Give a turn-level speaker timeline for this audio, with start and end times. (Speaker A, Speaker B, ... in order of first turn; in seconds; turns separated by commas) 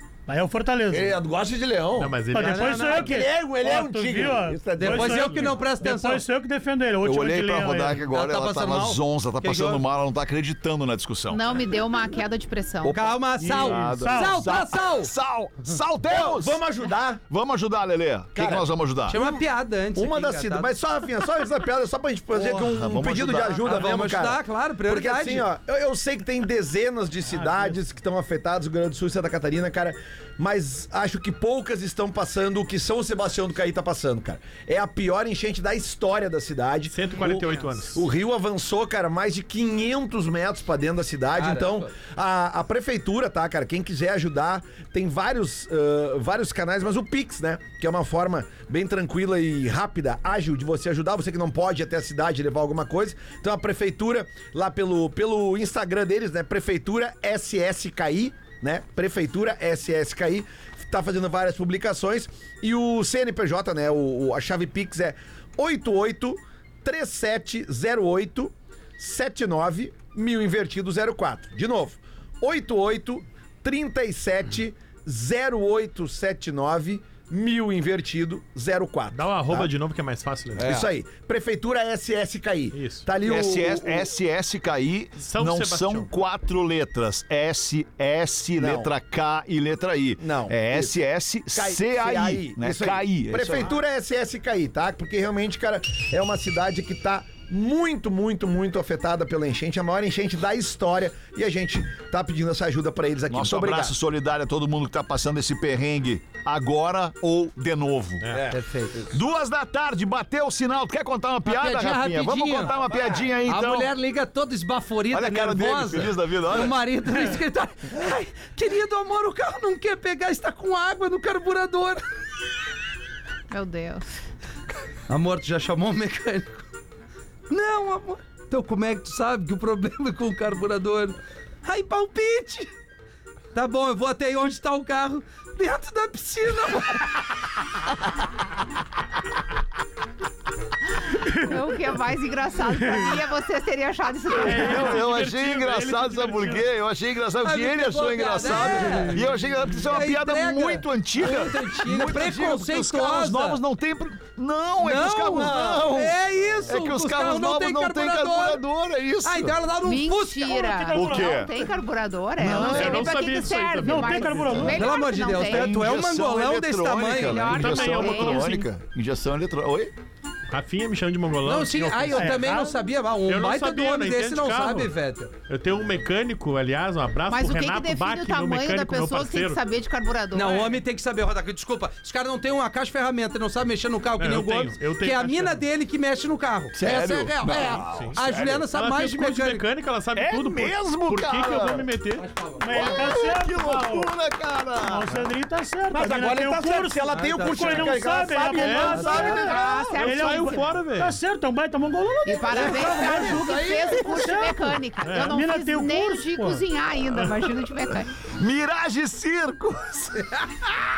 Speaker A: 0.3-1.2, Speaker B: 0.9-2.3, Speaker C: 2.0-3.1, Speaker A: 2.3-8.1, Speaker D: 2.3-3.2, Speaker B: 2.9-5.5, Speaker D: 4.8-6.3, Speaker E: 7.0-11.4, Speaker D: 8.1-9.8, Speaker F: 11.3-13.0, Speaker E: 12.9-16.6, Speaker D: 12.9-15.1, Speaker A: 13.4-14.5, Speaker B: 16.1-17.2, Speaker E: 17.3-19.2, Speaker B: 18.4-79.7, Speaker D: 19.1-20.8, Speaker E: 22.5-23.8, Speaker D: 23.6-25.5, Speaker C: 27.3-27.7, Speaker C: 36.9-38.1, Speaker D: 41.4-41.9, Speaker C: 79.1-80.7, Speaker B: 80.5-84.1, Speaker E: 80.6-80.9, Speaker C: 82.7-83.0, Speaker E: 83.2-93.8, Speaker C: 85.2-86.1, Speaker B: 88.6-88.9, Speaker B: 90.2-90.9, Speaker B: 91.5-103.9, Speaker E: 103.3-108.4, Speaker C: 108.2-108.5, Speaker B: 108.3-109.1, Speaker D: 108.5-109.0, Speaker E: 109.1-113.9, Speaker D: 111.5-112.8, Speaker B: 112.6-113.3, Speaker D: 113.5-122.0, Speaker E: 115.1-116.8, Speaker F: 123.5-124.1, Speaker D: 125.1-126.7, Speaker D: 127.5-132.7, Speaker D: 133.5-137.3, Speaker A: 141.2-141.6, Speaker F: 141.3-144.9, Speaker A: 142.8-143.2, Speaker C: 144.4-146.7, Speaker E: 144.6-159.6, Speaker D: 147.4-153.6, Speaker D: 154.8-158.6, Speaker D: 159.2-160.7, Speaker F: 159.8-165.9, Speaker A: 160.5-161.5, Speaker E: 160.9-161.5, Speaker E: 162.4-163.1, Speaker C: 162.5-164.8, Speaker A: 163.8-164.9, Speaker D: 164.7-167.5, Speaker E: 165.4-169.9, Speaker F: 167.1-168.6, Speaker C: 167.5-168.6, Speaker C: 170.5-172.4, Speaker D: 171.4-175.3, Speaker A: 172.2-172.8, Speaker C: 173.3-174.9, Speaker C: 175.5-179.6, Speaker F: 177.3-180.8, Speaker D: 180.3-189.6, Speaker C: 184.2-185.6, Speaker E: 186.8-188.7, Speaker C: 187.9-192.3, Speaker E: 190.2-191.9, Speaker D: 192.2-193.2, Speaker A: 192.6-194.1, Speaker E: 192.7-195.2, Speaker A: 194.8-206.6, Speaker B: 195.9-199.6, Speaker D: 197.1-198.1, Speaker C: 198.6-199.3, Speaker F: 198.9-200.8, Speaker C: 199.9-201.2, Speaker F: 202.2-208.1, Speaker D: 202.5-204.3, Speaker C: 205.1-205.3, Speaker E: 208.3-210.8